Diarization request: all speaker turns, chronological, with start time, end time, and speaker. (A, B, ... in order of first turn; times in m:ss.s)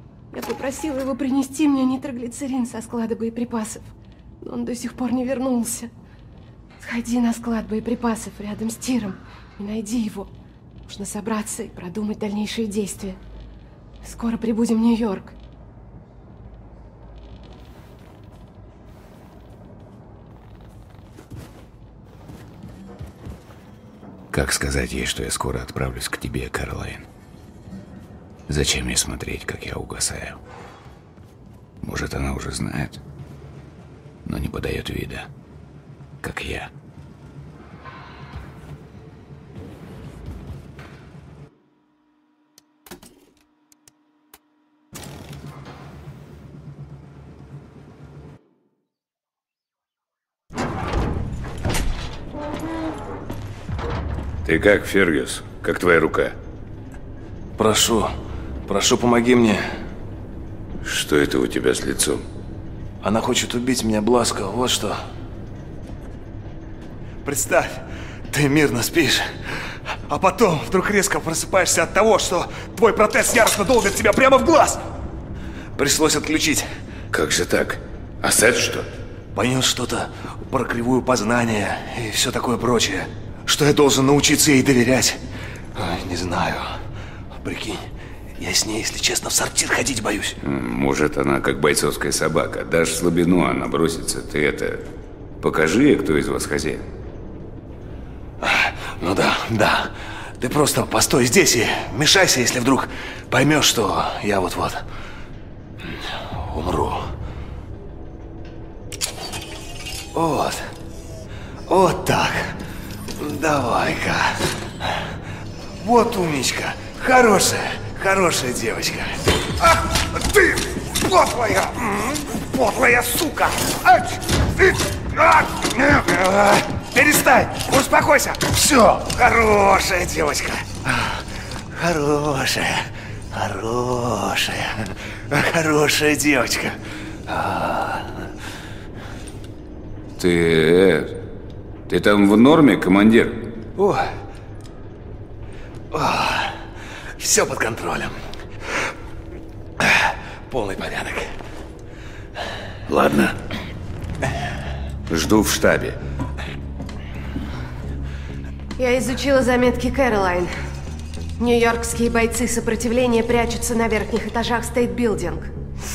0:00.3-0:03.9 A
0:04.4-0:05.9 A
0:06.8-0:10.3 A
0:10.9-0:13.2 A
0:14.0-0:15.4 A
0:24.3-0:27.0 B
0:28.5-0:30.4 B
0:31.8-0:33.0 B
0:34.2-0:35.3 B
0:36.2-0:36.7 B
0:54.4-0:56.4 B
0:57.6-0:58.1 C
0:58.7-0:59.6 C
1:00.8-1:02.2 B
1:03.0-1:05.0 C
1:07.2-1:09.2 C
1:10.1-1:14.8 C
1:15.8-1:16.7 C
1:17.1-1:18.9 B
1:19.4-1:25.2 C
1:25.8-1:26.8 C
1:27.4-1:27.8 C
1:28.4-1:30.4 C
1:30.4-1:34.8 B
1:35.4-1:36.8 B
1:38.4-1:44.8 C
1:45.9-1:47.1 C
1:50.2-1:50.6 C
1:51.7-1:52.5 C
1:53.2-1:54.4 C
1:55.8-1:59.2 C
1:59.7-2:11.2 C
2:11.8-2:16.8 C
2:17.3-2:18.3 C
2:20.2-2:21.2 B
2:21.9-2:23.5 B
2:23.8-2:24.1 C
2:25.9-2:26.6 C
2:27.2-2:28.2 C
2:29.8-2:31.3 C
2:32.9-2:33.3 C
2:35.1-2:36.0 B
2:38.8-2:40.5 A
2:41.4-2:45.5 A